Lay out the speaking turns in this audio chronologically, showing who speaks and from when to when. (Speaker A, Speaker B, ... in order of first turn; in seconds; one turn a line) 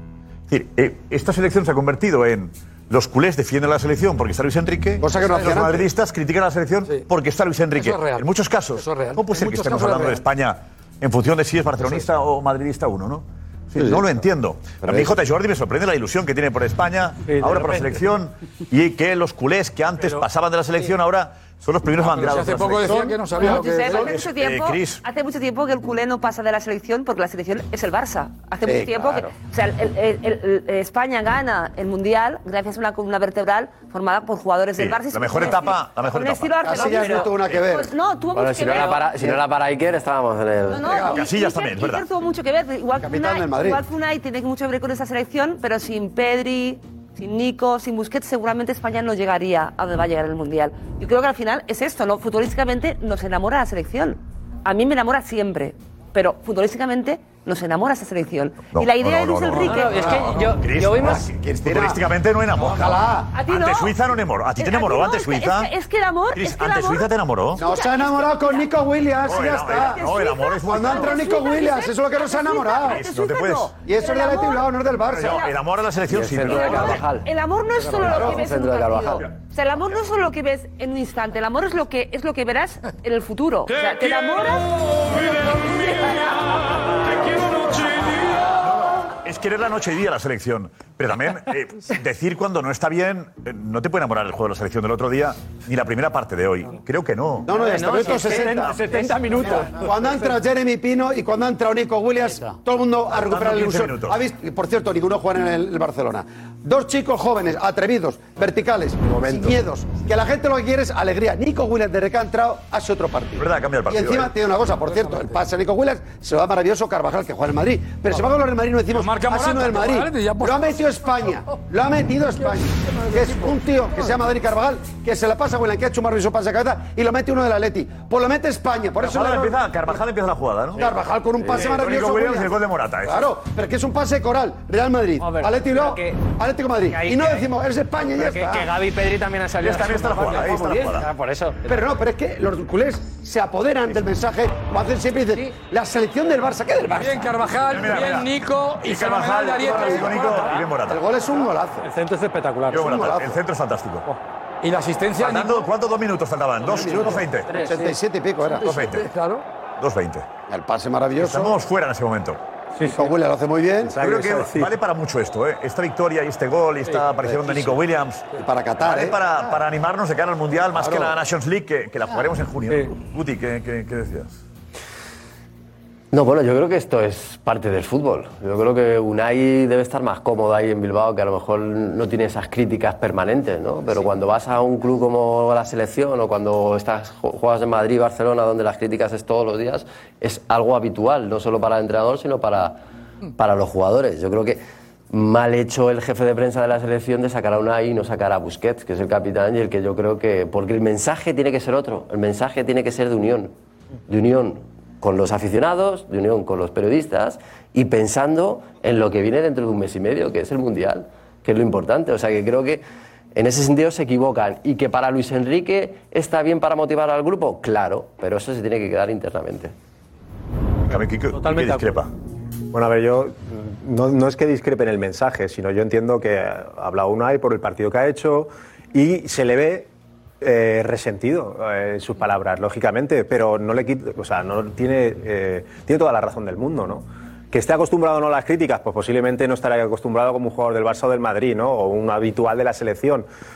Speaker A: 0.5-23.1
Speaker B: 5.0-5.9
Speaker C: 5.2-5.6
Speaker C: 7.8-10.2
Speaker B: 13.8-14.1
Speaker B: 14.8-15.2
Speaker D: 17.3-18.1
Speaker C: 22.2-24.1
Speaker B: 22.9-24.0
Speaker E: 23.4-39.3
Speaker A: 23.9-25.0
Speaker B: 28.6-29.3
Speaker A: 34.8-37.3
Speaker B: 36.6-37.9
Speaker F: 38.3-41.0
Speaker E: 40.7-60.3
Speaker B: 40.8-41.2
Speaker A: 41.0-42.1
Speaker B: 43.0-43.8
Speaker A: 58.7-65.7
Speaker G: 59.7-61.2
Speaker B: 61.0-62.0
Speaker B: 62.6-63.3
Speaker E: 63.3-63.9
Speaker E: 64.6-68.7
Speaker A: 66.3-67.6
Speaker B: 67.6-70.0
Speaker A: 69.2-71.3
Speaker E: 69.3-75.5
Speaker B: 70.6-73.0
Speaker A: 72.8-73.7
Speaker B: 73.8-75.4
Speaker A: 75.1-77.0
Speaker F: 76.1-77.3
Speaker B: 76.2-76.5
Speaker E: 76.5-86.6
Speaker F: 78.0-79.3
Speaker B: 78.0-78.5
Speaker A: 88.3-97.5
Speaker B: 97.5-129.6
Speaker G: 97.5-98.7
Speaker D: 97.8-99.8
Speaker A: 103.2-104.2
Speaker H: 109.0-109.6
Speaker A: 113.4-114.3
Speaker C: 114.9-115.4
Speaker C: 118.9-121.5
Speaker C: 122.4-124.2
Speaker A: 129.0-133.3
Speaker B: 130.8-138.7
Speaker G: 135.2-136.2
Speaker G: 136.9-137.5
Speaker G: 138.2-141.8
Speaker A: 139.6-141.1
Speaker B: 141.7-147.3
Speaker C: 147.0-150.3
Speaker A: 147.7-148.3
Speaker A: 148.8-151.0
Speaker B: 149.6-151.9
Speaker D: 151.8-152.9
Speaker A: 152.7-154.1
Speaker B: 152.7-153.4
Speaker C: 154.6-155.7
Speaker A: 155.2-157.5
Speaker B: 156.7-158.8
Speaker D: 157.5-157.9
Speaker C: 158.6-159.4
Speaker A: 158.6-159.1
Speaker A: 159.8-160.3
Speaker B: 160.5-161.6
Speaker A: 161.2-162.4
Speaker D: 162.8-163.1
Speaker B: 162.9-164.0
Speaker H: 163.8-164.7
Speaker A: 164.0-168.3
Speaker B: 167.2-167.7
Speaker B: 168.3-169.6
Speaker A: 168.8-174.4
Speaker B: 170.7-171.2
Speaker F: 176.1-192.8
Speaker F: 193.4-203.5
Speaker F: 204.1-212.8
Speaker F: 213.3-219.7
Speaker A: 220.9-222.1
Speaker D: 221.3-222.0
Speaker H: 222.7-229.9
Speaker H: 230.4-243.3